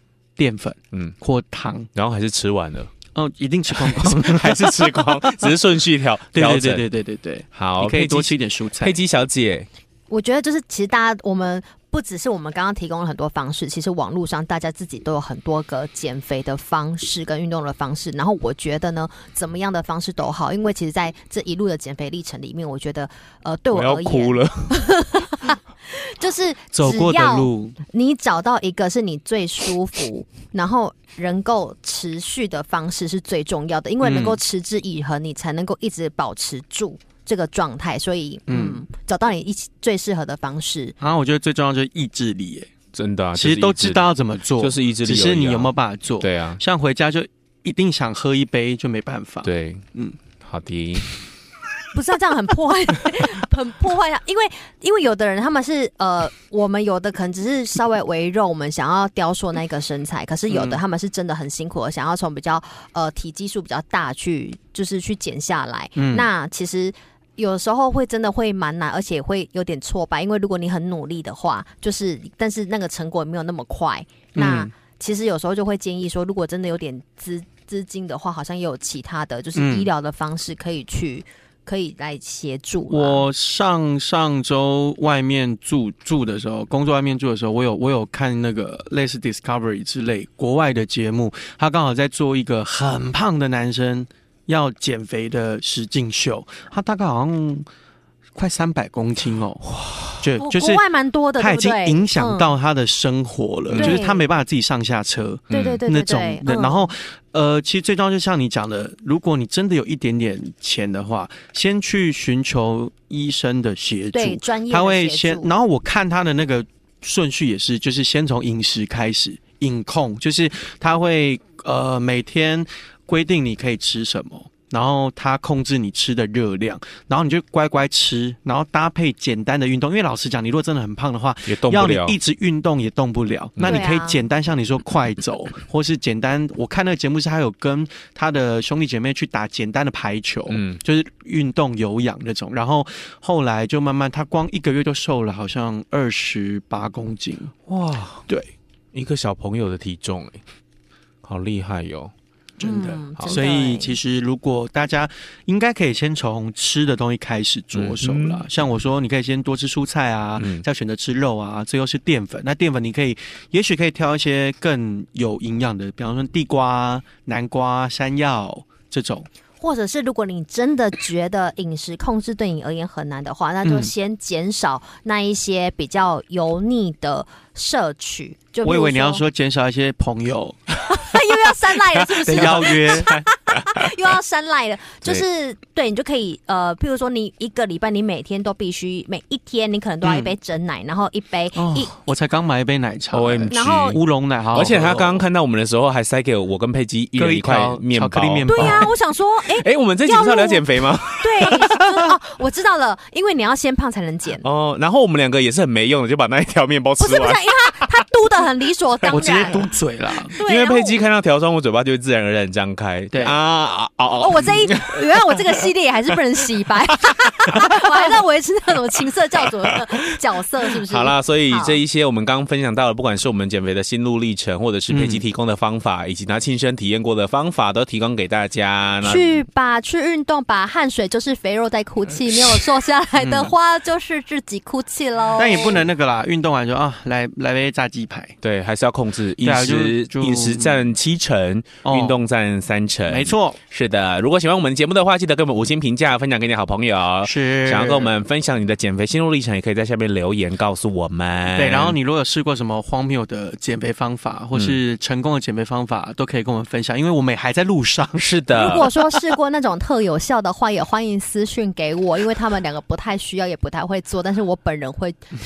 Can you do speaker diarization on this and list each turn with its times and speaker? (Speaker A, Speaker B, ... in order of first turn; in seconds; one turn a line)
Speaker A: 0.4-1.9
Speaker B: 1.9-2.9
Speaker A: 3.1-5.5
Speaker B: 3.7-6.9
Speaker A: 6.3-9.0
Speaker B: 7.5-9.7
Speaker C: 10.1-41.0
Speaker B: 23.7-24.8
Speaker A: 26.7-27.8
Speaker A: 34.0-34.4
Speaker A: 38.5-38.8
Speaker A: 41.0-42.7
Speaker B: 42.9-46.6
Speaker A: 43.4-50.2
Speaker B: 49.4-49.9
Speaker B: 50.4-51.1
Speaker C: 51.9-83.2
Speaker A: 60.5-60.8
Speaker A: 66.0-66.3
Speaker A: 74.3-74.7
Speaker A: 79.6-79.9
Speaker A: 82.9-97.7
Speaker A: 98.4-100.8
Speaker B: 99.7-100.2
Speaker C: 100.4-102.5
Speaker A: 101.4-147.5
Speaker B: 103.7-104.0
Speaker C: 103.7-104.3
Speaker B: 105.5-105.8
Speaker C: 105.5-106.9
Speaker C: 114.1-115.5
Speaker B: 131.5-132.2
Speaker B: 133.6-133.8
Speaker C: 133.6-134.2
Speaker B: 140.5-140.8
Speaker B: 147.7-148.2
Speaker B: 148.9-150.4
Speaker B: 151.2-152.1
Speaker A: 152.6-169.3
Speaker C: 152.6-154.0
Speaker B: 153.2-153.4
Speaker B: 157.7-158.5
Speaker B: 160.4-160.6
Speaker C: 169.6-179.2
Speaker A: 173.7-173.9
Speaker A: 178.6-180.8
Speaker C: 180.9-192.1
Speaker A: 182.2-183.3
Speaker B: 182.3-183.1
Speaker A: 190.0-190.3
Speaker A: 191.6-195.2
Speaker B: 193.1-194.0
Speaker C: 193.5-194.0
Speaker B: 194.5-198.9
Speaker A: 197.2-198.9
Speaker C: 198.5-204.5
Speaker B: 199.5-202.1
Speaker B: 204.4-207.5
Speaker C: 207.0-209.6
Speaker A: 209.1-210.3
Speaker C: 210.3-211.0
Speaker B: 210.4-215.6
Speaker A: 213.1-213.4
Speaker C: 214.2-221.8
Speaker B: 217.5-217.8
Speaker B: 220.9-229.4
Speaker A: 224.9-225.2
Speaker C: 229.0-235.8
Speaker A: 233.2-233.5
Speaker A: 235.4-238.4
Speaker B: 238.4-252.0
Speaker A: 239.4-240.8
Speaker A: 241.8-242.2
Speaker A: 243.1-243.6
Speaker A: 247.2-248.2
Speaker A: 251.5-258.8
Speaker B: 258.2-258.9
Speaker C: 258.5-265.2